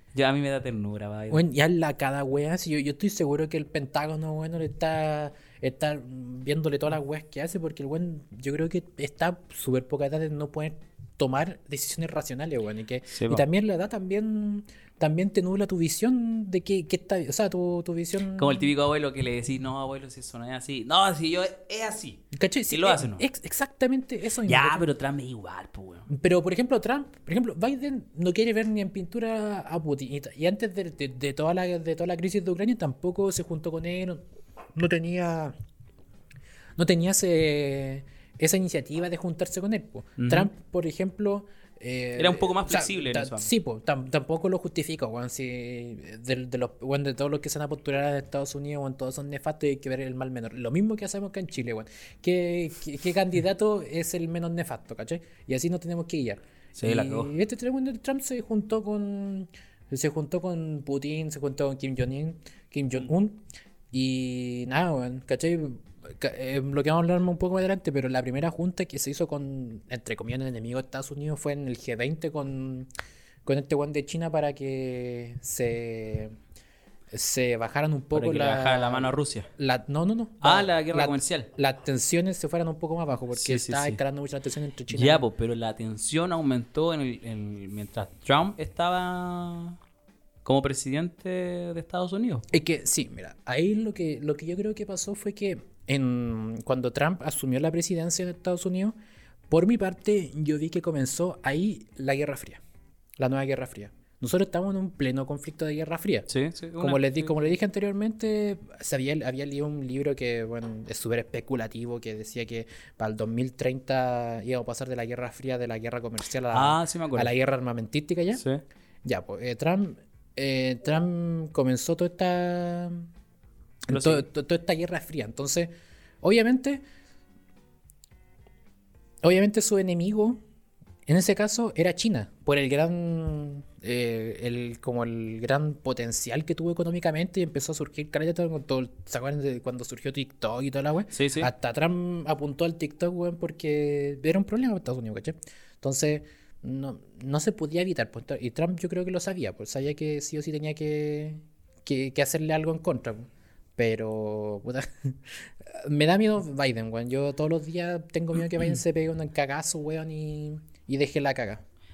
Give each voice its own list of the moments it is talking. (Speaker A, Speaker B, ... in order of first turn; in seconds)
Speaker A: 0.1-1.4, 13.1-13.4, 18.4-23.2, 24.5-26.1, 40.2-40.5, 42.2-43.5, 56.8-57.3, 78.1-79.5, 80.4-81.5, 83.3-84.0, 84.9-89.8, 90.5-92.5, 106.3-107.4, 116.5-117.3, 118.3-118.6, 123.9-124.2, 141.1-141.5
Speaker B: 1.3-18.7, 22.3-24.9, 26.1-34.2, 34.7-35.5, 36.8-72.9, 73.5-76.3, 77.1-85.2, 92.5-99.0, 99.5-102.6, 103.2-118.4, 119.0-123.1, 123.9-126.8, 129.2-130.4, 131.1-161.6